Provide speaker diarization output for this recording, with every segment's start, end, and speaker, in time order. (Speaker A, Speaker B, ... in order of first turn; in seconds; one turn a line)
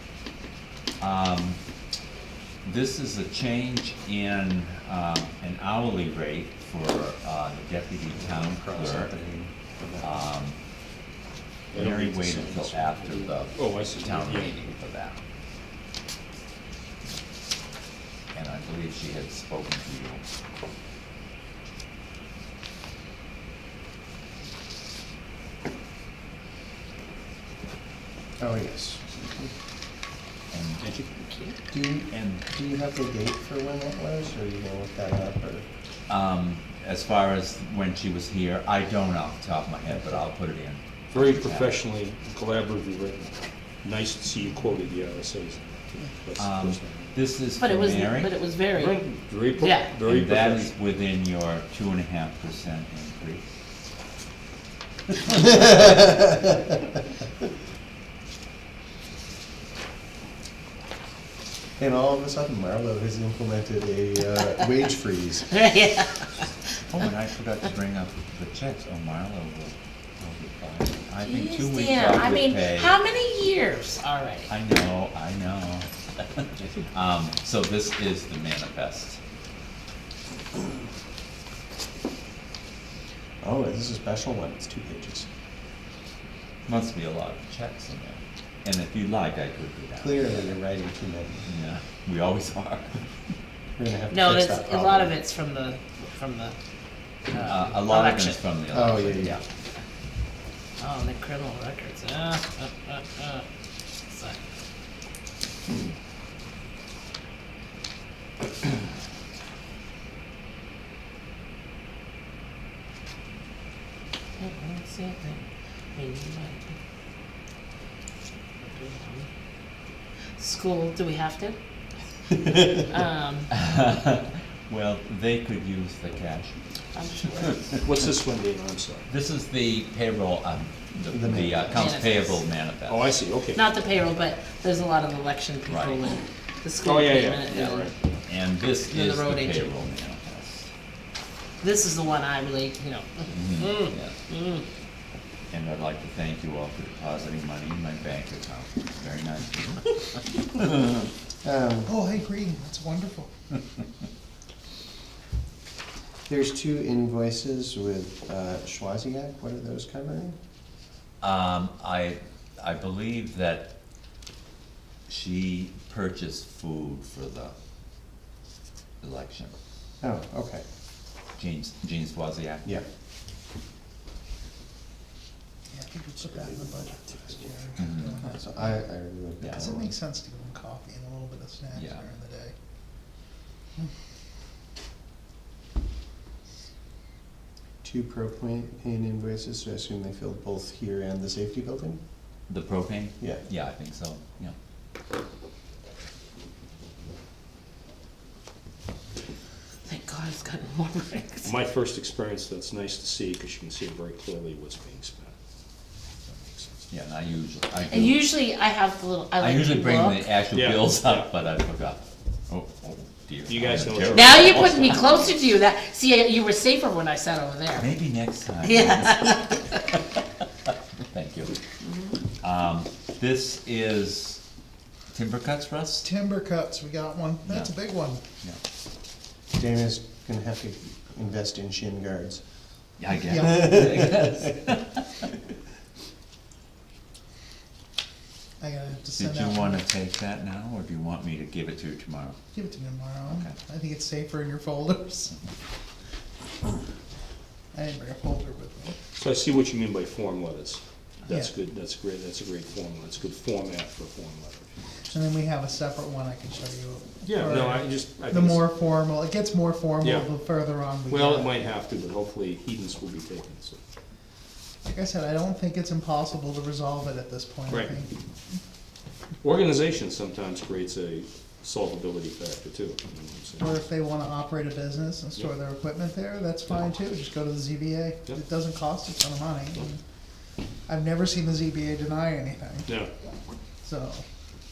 Speaker A: 1.0-1.6
Speaker A: 2.6-9.2
Speaker B: 8.2-10.2
Speaker A: 10.0-10.6
Speaker C: 11.7-14.5
Speaker A: 11.7-15.2
Speaker A: 18.3-20.2
Speaker B: 28.4-29.5
Speaker A: 30.5-30.8
Speaker C: 30.8-31.1
Speaker D: 31.2-31.6
Speaker B: 31.7-35.6
Speaker A: 32.1-32.4
Speaker A: 36.1-41.8
Speaker B: 39.9-40.2
Speaker C: 41.1-47.0
Speaker A: 46.4-48.3
Speaker D: 47.6-49.0
Speaker C: 48.7-50.7
Speaker D: 49.5-49.9
Speaker A: 50.0-53.5
Speaker B: 55.3-56.5
Speaker B: 61.8-65.5
Speaker D: 65.5-66.4
Speaker A: 66.9-69.8
Speaker B: 70.2-70.9
Speaker A: 71.0-73.0
Speaker D: 71.2-74.5
Speaker A: 74.5-79.2
Speaker B: 83.4-85.3
Speaker A: 86.7-90.5
Speaker B: 90.0-91.5
Speaker A: 91.5-93.0
Speaker B: 93.8-95.2
Speaker D: 94.1-96.5
Speaker D: 97.3-98.4
Speaker A: 97.4-99.4
Speaker B: 98.7-99.4
Speaker D: 100.8-103.4
Speaker D: 104.1-104.4
Speaker D: 114.4-115.4
Speaker D: 115.9-116.7
Speaker D: 118.7-119.3
Speaker D: 120.4-121.6
Speaker D: 122.9-123.5
Speaker A: 123.5-126.6
Speaker D: 126.9-127.7
Speaker C: 127.8-129.1
Speaker A: 129.1-133.2
Speaker B: 131.1-132.0
Speaker D: 131.7-132.4
Speaker C: 132.9-133.6
Speaker D: 133.5-137.9
Speaker A: 135.7-136.0
Speaker C: 136.8-137.9
Speaker A: 137.5-140.7
Speaker D: 138.9-139.7
Speaker D: 141.6-144.6
Speaker A: 143.3-144.1
Speaker A: 145.5-151.0
Speaker B: 151.4-152.0
Speaker E: 151.9-153.3
Speaker B: 156.3-160.3
Speaker A: 161.2-163.7
Speaker A: 165.1-167.5
Speaker A: 169.0-169.5
Speaker B: 170.0-170.6
Speaker A: 171.4-172.7
Speaker E: 175.7-178.7
Speaker C: 176.3-177.1
Speaker A: 177.8-178.1
Speaker B: 178.2-179.9
Speaker A: 179.4-179.7
Speaker E: 179.6-182.5
Speaker A: 181.7-182.0
Speaker B: 187.8-192.0
Speaker A: 192.5-194.5
Speaker D: 199.8-201.5
Speaker C: 201.4-205.3
Speaker C: 206.2-206.9
Speaker A: 206.9-208.2
Speaker D: 207.9-210.4
Speaker A: 209.4-215.0
Speaker C: 210.5-211.3
Speaker C: 213.4-215.4
Speaker D: 214.1-217.9
Speaker A: 217.7-219.8
Speaker D: 218.6-219.7
Speaker A: 221.1-221.5
Speaker A: 222.4-224.4
Speaker A: 225.1-226.1
Speaker E: 226.0-228.2
Speaker A: 227.4-227.7
Speaker B: 229.5-232.4
Speaker A: 233.0-234.8
Speaker E: 233.3-233.7
Speaker B: 233.6-234.1
Speaker E: 238.6-239.8
Speaker A: 239.1-242.3
Speaker E: 242.5-245.3
Speaker A: 243.3-243.5
Speaker E: 247.7-249.0
Speaker C: 249.1-254.7
Speaker E: 251.3-251.5
Speaker E: 255.1-261.6
Speaker C: 257.2-258.9
Speaker C: 260.0-260.3
Speaker C: 261.1-263.8
Speaker E: 264.8-268.1
Speaker C: 267.7-267.9
Speaker C: 269.4-273.7
Speaker E: 273.6-280.0
Speaker E: 280.9-283.0
Speaker E: 283.8-284.2